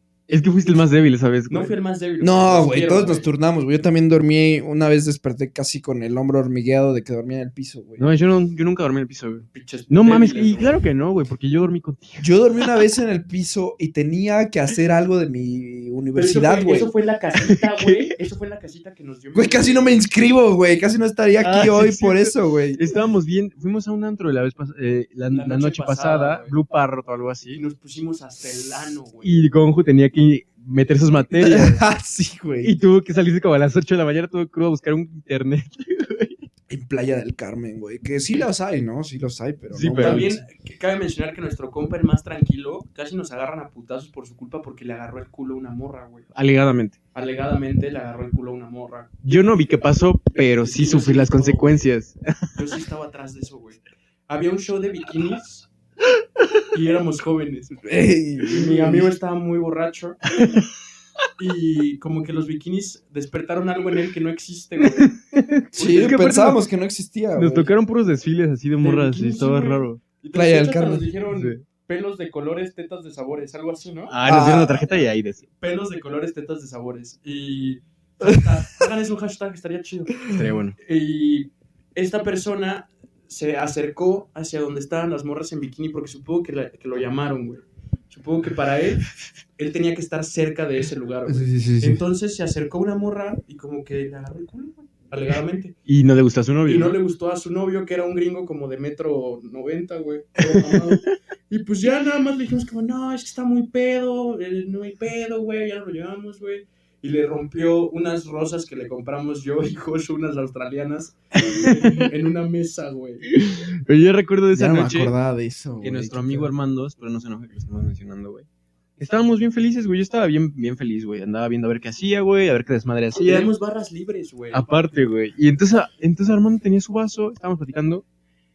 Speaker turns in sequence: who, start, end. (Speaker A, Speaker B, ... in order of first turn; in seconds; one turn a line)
Speaker A: 0.3-1.8
Speaker B: 1.5-3.3
Speaker C: 2.2-8.1
Speaker A: 8.0-12.3
Speaker B: 9.5-10.8
Speaker C: 12.2-16.9
Speaker B: 16.1-20.1
Speaker A: 17.5-18.1
Speaker C: 19.3-22.8
Speaker A: 21.4-27.6
Speaker B: 25.3-26.6
Speaker B: 27.5-29.4
Speaker A: 29.2-31.8
Speaker C: 31.4-32.7
Speaker A: 32.6-36.5
Speaker C: 36.7-40.4
Speaker A: 39.7-40.3
Speaker B: 40.0-46.3
Speaker A: 46.3-47.0
Speaker B: 47.1-49.1
Speaker A: 49.2-52.7
Speaker B: 50.6-51.8
Speaker B: 52.5-55.7
Speaker B: 56.7-57.8
Speaker C: 57.9-59.1
Speaker B: 58.5-60.2
Speaker A: 60.3-60.7
Speaker B: 61.4-65.1
Speaker A: 64.8-66.6
Speaker C: 65.7-67.7
Speaker B: 65.7-66.2
Speaker A: 67.3-70.0
Speaker B: 68.8-74.1
Speaker C: 70.3-71.1
Speaker A: 71.3-71.6
Speaker A: 74.1-75.5
Speaker C: 74.2-74.9
Speaker B: 75.6-80.2
Speaker C: 80.2-80.5
Speaker A: 80.3-80.8
Speaker B: 80.8-95.8
Speaker C: 91.3-92.0
Speaker A: 95.9-97.0
Speaker B: 96.7-113.2
Speaker A: 100.4-101.1
Speaker A: 111.5-112.1
Speaker A: 113.3-115.1
Speaker C: 114.5-116.5
Speaker A: 115.8-118.5
Speaker A: 119.0-123.5
Speaker B: 123.2-124.7
Speaker A: 124.5-128.0